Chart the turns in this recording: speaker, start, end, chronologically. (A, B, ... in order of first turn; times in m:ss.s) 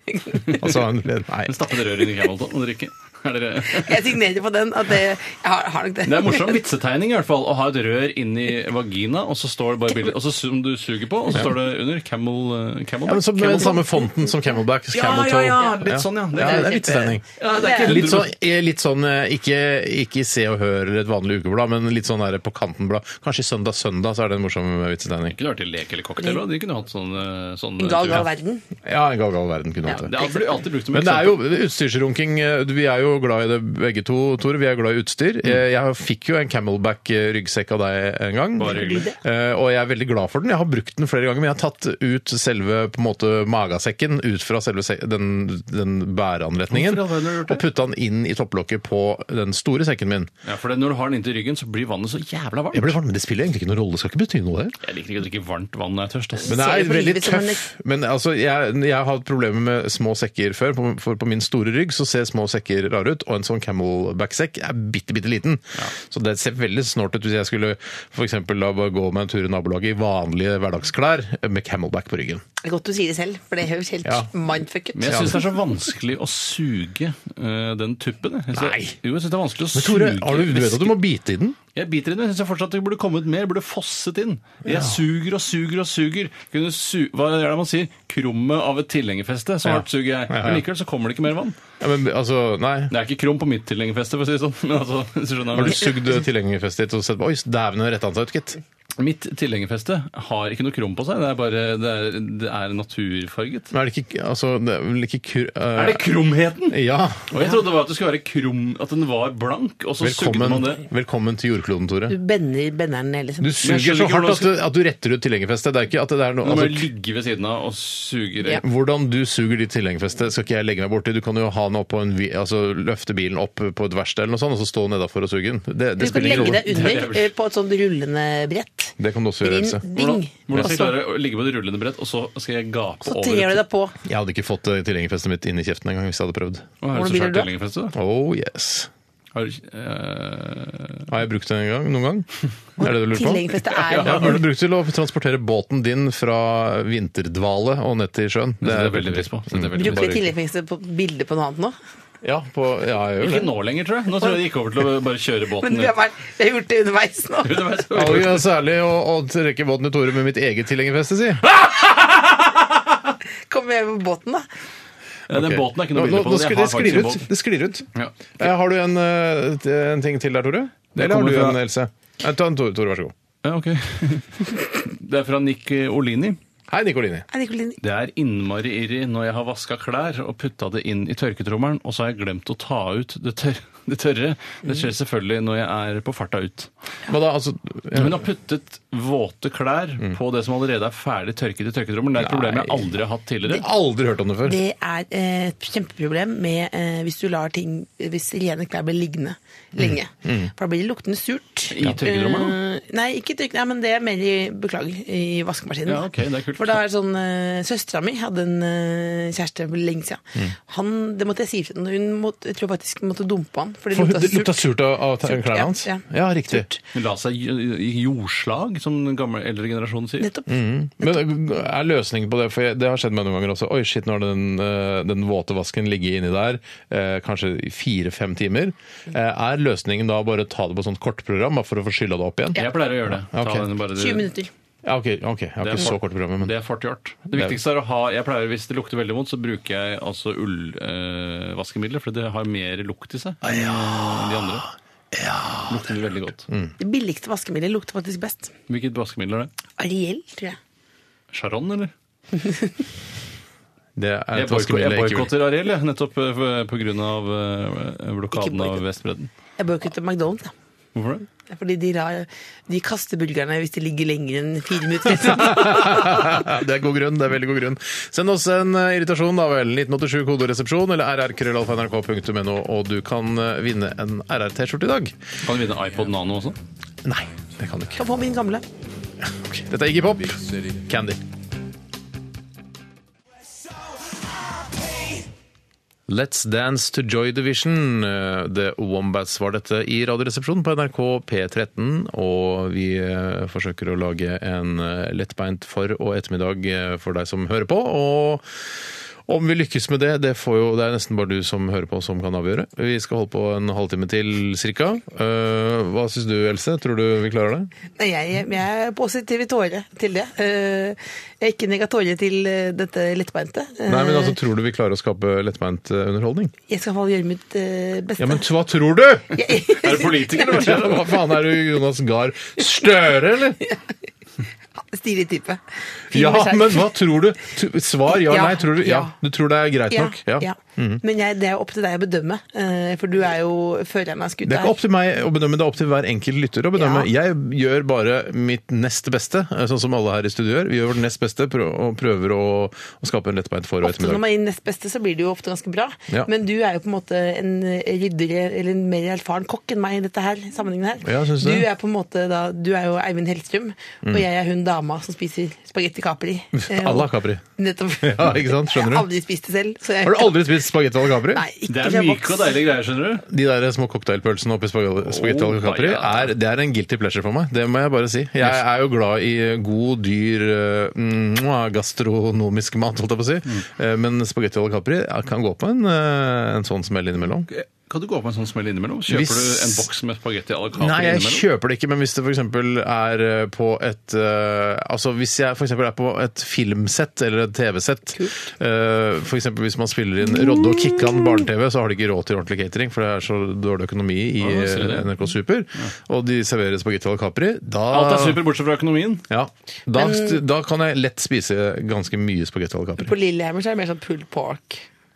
0:00.2-0:00.5 A
0:00.3-0:00.7 B
0:00.6-0:01.6 C
0:01.4-0:04.1 B
0:03.7-0:06.6 A
0:06.0-0:13.8 B
0:13.1-0:25.4 C
0:14.9-0:18.3 B
0:15.6-0:18.1 A
0:25.3-0:28.3 B
0:27.8-0:28.6 A
0:28.8-0:30.1 C
0:29.9-0:30.3 A
0:29.9-0:31.5 B
0:30.9-0:50.3 C
0:38.6-0:39.1 B
0:38.6-0:39.2 A
0:46.7-0:47.6 B
0:50.4-0:53.0 B
0:52.7-0:54.8 C
0:54.8-0:56.6 B
0:56.4-0:57.6 A
0:56.5-1:12.4 C
1:12.6-1:15.4 A
1:14.0-1:14.3 C
1:15.0-1:20.9 B
1:15.1-1:15.4 C
1:18.5-1:19.0 C
1:19.7-1:21.6 C
1:21.7-1:31.6 B
1:24.7-1:25.0 C
1:29.6-1:30.6 C
1:31.8-1:32.9 C
1:32.9-1:35.9 B
1:35.5-1:38.6 C
1:39.0-1:43.7 B
1:43.7-1:46.0 C
1:45.7-1:46.8 B
1:46.7-1:47.3 C
1:47.3-1:50.8 B
1:50.0-1:52.2 C
1:52.1-1:53.5 A
1:53.4-1:56.9 C
1:53.6-1:54.5 B
1:56.4-1:58.6 B
1:58.6-2:06.7 C
2:06.0-2:11.0 A
2:06.0-2:07.3 B
2:09.0-2:09.8 C
2:09.9-2:13.6 B
2:13.0-2:13.9 A
2:14.0-2:16.7 C
2:16.8-2:17.9 B
2:16.9-2:17.5 A
2:17.9-2:18.9 C
2:19.3-2:21.1 B
2:21.1-2:22.3 C
2:22.8-2:24.4 A
2:22.8-2:30.2 C
2:23.7-2:24.4 B
2:28.6-2:30.3 B
2:29.7-2:31.8 A
2:32.2-2:33.5 C
2:33.2-2:35.9 B
2:35.6-2:37.8 A
2:37.4-2:38.4 B
2:37.9-2:41.4 C
2:41.7-2:41.9 B
2:43.5-2:44.4 A
2:45.3-2:47.3 B
2:45.3-2:47.9 C
2:47.9-2:48.3 B
2:48.4-2:53.1 C
2:50.9-2:51.6 B
2:53.4-2:56.4 B
2:56.7-2:57.2 C
2:57.3-2:57.8 A
2:57.8-3:06.7 B
3:07.1-3:08.2 C
3:07.9-3:13.7 B
3:12.2-3:12.9 C
3:13.4-3:14.6 C
3:14.4-3:34.7 A
3:19.8-3:20.5 C
3:21.7-3:22.6 B
3:25.8-3:26.8 B
3:33.9-3:36.7 C
3:35.2-3:36.8 A
3:36.9-3:40.3 B
3:40.2-3:41.2 A
3:40.5-3:53.7 C
3:52.5-3:54.3 B
3:53.9-3:54.5 A
3:54.8-3:56.5 C
3:55.6-4:04.6 B
4:03.4-4:05.9 C
4:05.7-4:06.5 B
4:06.5-4:06.7 C
4:06.8-4:08.5 A
4:08.7-4:09.5 B
4:09.8-4:10.6 A
4:11.3-4:11.9 B
4:14.0-4:15.3 C
4:14.3-4:19.3 B
4:18.3-4:18.8 A
4:19.6-4:20.5 A
4:20.9-4:21.2 B
4:21.4-4:26.3 A
4:25.2-4:35.1 C
4:35.4-4:36.6 B
4:37.0-4:38.0 C
4:38.0-4:38.6 A
4:39.2-4:41.2 C
4:46.1-4:58.4 C
4:59.3-5:07.7 C
5:08.0-5:14.4 A
5:13.9-5:16.5 C
5:16.7-5:18.4 A
5:18.2-5:19.4 C
5:19.3-5:20.8 A
5:19.7-5:21.3 B
5:20.4-5:23.6 C
5:24.8-5:26.9 A
5:26.1-5:31.0 C
5:28.1-5:29.2 A
5:29.9-5:34.8 A
5:34.4-5:44.2 C
5:36.8-5:37.1 A
5:43.8-6:00.5 A
5:51.0-5:51.6 C
5:56.5-5:57.4 C
5:58.0-5:59.1 C
6:00.0-6:01.4 C
6:01.3-6:02.5 A
6:01.7-6:03.2 B
6:03.3-6:17.5 C
6:05.0-6:06.3 B
6:17.5-6:21.4 B
6:19.1-6:19.9 C
6:20.8-6:38.4 C
6:34.4-6:35.1 B
6:37.9-6:39.2 B
6:39.3-6:43.1 C
6:39.9-6:40.4 A
6:43.0-6:44.8 A